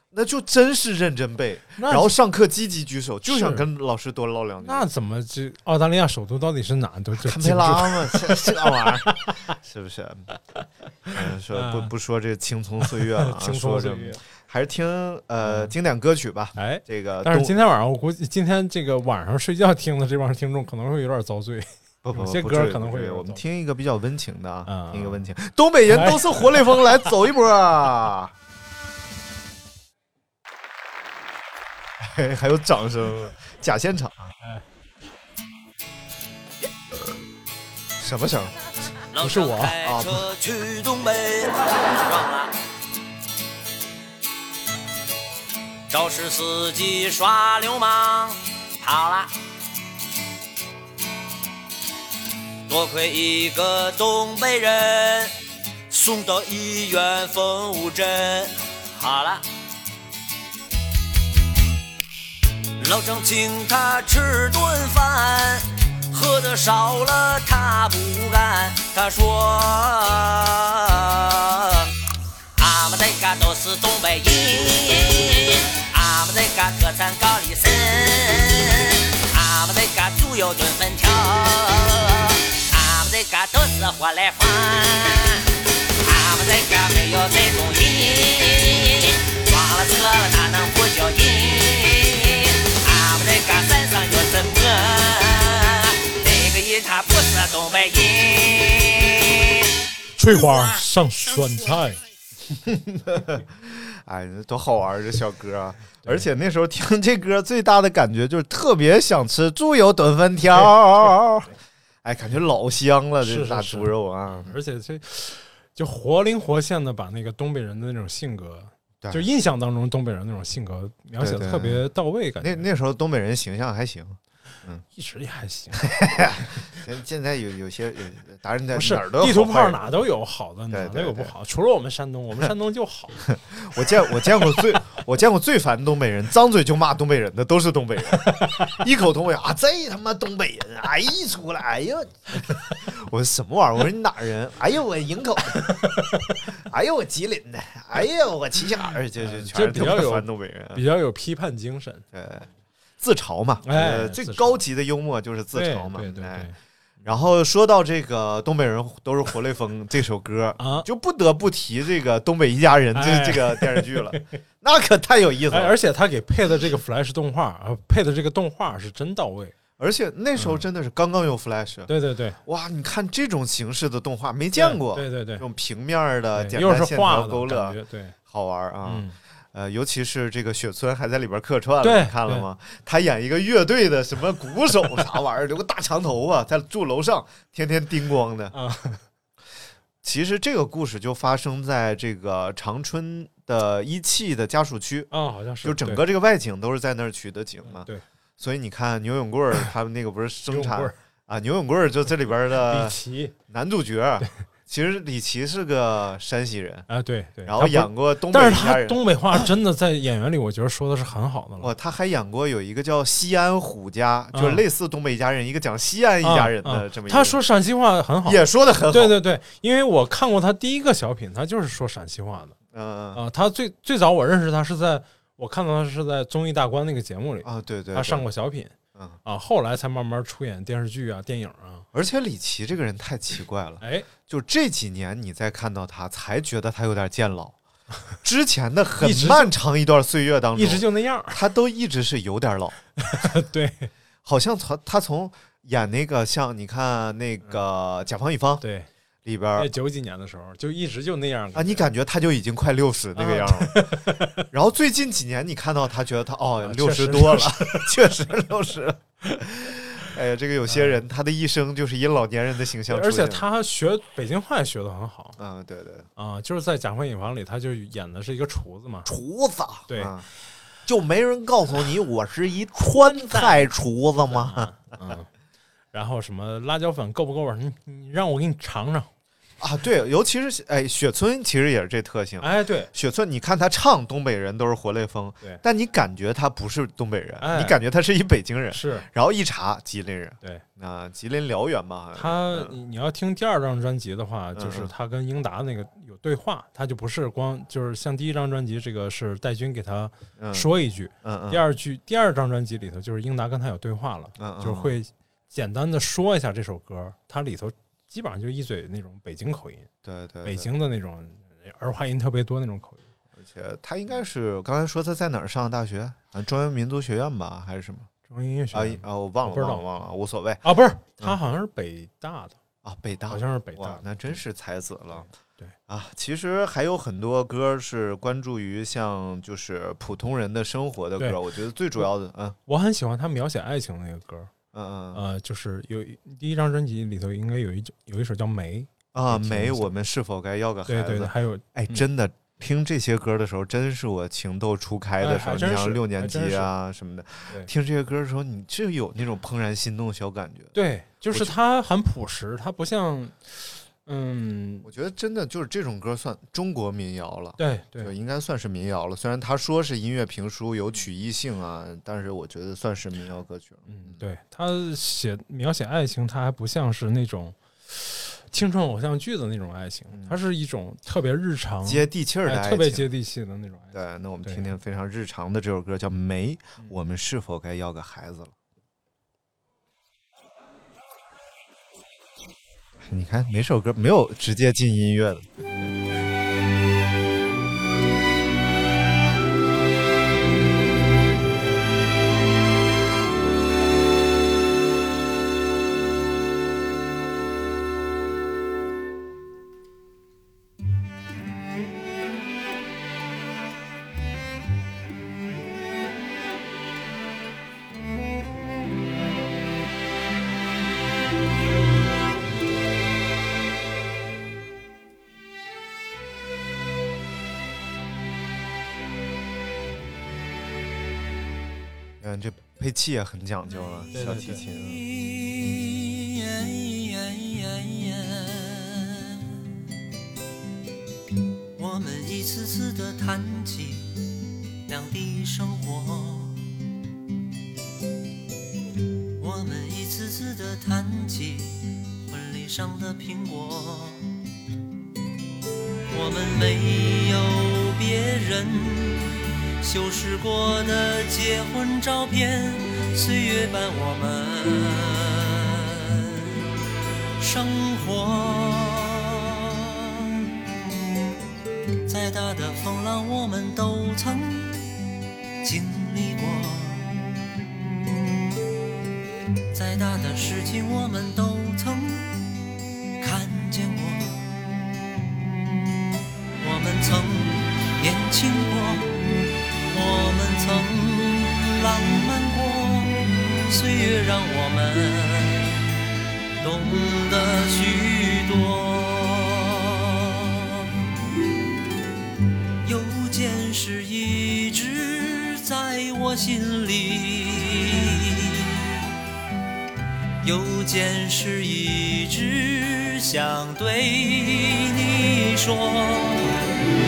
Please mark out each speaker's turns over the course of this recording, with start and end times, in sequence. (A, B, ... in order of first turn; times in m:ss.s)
0:00.1-0:04.9 A
0:01.8-0:02.1 B
0:03.2-0:03.6 B
0:04.6-0:09.5 B
0:07.2-0:10.3 A
0:11.1-0:11.9 B
0:11.1-0:17.6 A
0:12.8-0:14.2 B
0:15.4-0:15.7 B
0:16.6-0:23.4 B
0:22.0-0:28.3 A
0:24.7-0:25.2 B
0:25.9-0:27.1 B
0:32.0-0:34.3 A
0:38.0-0:38.6 A
0:39.1-0:42.5 C
0:39.2-0:39.8 B
0:39.8-0:40.2 A
0:45.9-0:49.3 C
0:52.7-0:55.4 C
0:55.9-0:59.4 C
1:02.8-1:11.9 C
1:12.6-1:39.7 C
1:40.2-1:42.0 B
1:42.6-1:51.5 A
1:50.6-1:51.1 B
1:52.0-1:54.6 A
1:53.2-2:02.6 B
2:01.2-2:01.8 A
2:02.4-2:04.8 A
2:04.9-2:06.6 B
2:05.8-2:09.8 A
2:08.7-2:13.2 B
2:10.7-2:11.3 A
2:13.3-2:30.8 A
2:18.2-2:18.8 B
2:25.5-2:26.5 B
2:29.2-2:32.0 B
2:32.1-2:36.5 A
2:33.6-2:34.6 B
2:35.5-2:36.5 B
2:37.0-2:45.7 A
2:40.6-2:40.9 B
2:42.9-2:44.4 B
2:45.5-2:49.6 B
2:49.8-2:51.9 A
2:50.4-2:50.6 B
2:51.9-2:52.4 B
2:52.4-3:08.5 A
2:54.5-2:55.4 B
2:56.3-2:58.1 B
2:58.8-2:59.2 B
3:01.8-3:02.4 B
3:08.5-3:09.0 B
3:10.0-3:15.1 A
3:15.1-3:16.0 B
3:15.6-3:17.9 A
3:17.6-3:18.0 B
3:18.4-3:23.0 A
3:20.5-3:20.9 B
3:22.6-3:23.3 B
3:23.5-3:26.8 A
3:26.9-3:31.7 B
3:27.4-3:29.5 A
3:31.6-3:37.4 A
3:34.3-3:34.6 B
3:36.2-3:42.5 B
3:38.2-3:39.2 A
3:42.7-3:43.2 A
3:43.1-3:51.8 B
3:47.4-3:48.2 A
3:51.9-3:57.6 A
3:53.8-3:54.1 B
3:58.2-4:03.3 A
3:59.0-3:59.5 B
4:00.5-4:01.4 B
4:03.0-4:03.9 B
4:04.2-4:08.6 A
4:08.6-4:08.9 B
4:09.2-4:09.7 A
4:09.6-4:11.9 B
4:11.5-4:23.4 A
4:13.2-4:14.5 B
4:16.6-4:18.0 B
4:20.7-4:21.0 B
4:22.9-4:25.4 B
4:25.4-4:26.1 A
4:26.2-4:29.1 B
4:29.0-4:30.2 A
4:29.9-4:30.1 B
4:30.8-4:34.8 A
4:33.3-4:33.7 B
4:34.2-4:35.3 B
4:35.9-4:39.1 B
4:39.6-4:52.8 A
4:42.4-4:42.9 B
4:47.4-4:47.8 B
4:48.7-4:49.1 B
4:52.2-5:09.9 B
4:54.6-4:54.9 A
5:00.4-5:00.7 A
5:01.2-5:01.6 A
5:04.4-5:04.9 A
5:10.0-5:10.7 A
5:10.4-5:13.0 B
5:13.4-5:18.1 A
5:18.3-5:19.8 B
5:18.7-5:20.6 A
5:20.6-5:22.6 B
5:22.8-5:25.3 A
5:23.3-5:24.0 B
5:25.2-5:25.7 B
5:25.9-5:32.6 A
5:32.7-5:34.5 B
5:34.7-5:35.2 A
5:35.1-5:39.9 B
5:39.1-5:50.7 A
5:40.9-5:42.0 B
5:45.2-5:46.7 B
5:50.7-5:54.9 B
5:51.3-5:51.6 A
5:54.8-6:04.2 A
5:57.6-5:58.1 B
6:03.9-6:14.7 B
6:10.1-6:10.4 A
6:11.8-6:13.1 A
6:13.9-6:18.5 A
6:23.0-6:25.5 A
7:02.2-7:05.0 A
7:04.1-7:04.6 B
7:04.7-7:09.6 C
7:11.7-7:14.2 C
7:14.8-7:16.7 C
7:19.4-7:24.4 C
7:26.1-7:36.6 C
7:37.4-7:41.4 C
7:42.0-7:44.9 C
7:45.6-7:48.6 C
7:49.7-7:52.5 C
7:53.2-7:56.1 C
7:56.6-8:05.9 C
8:06.6-8:11.0 C
8:12.8-8:19.0 C
8:20.4-8:26.6 C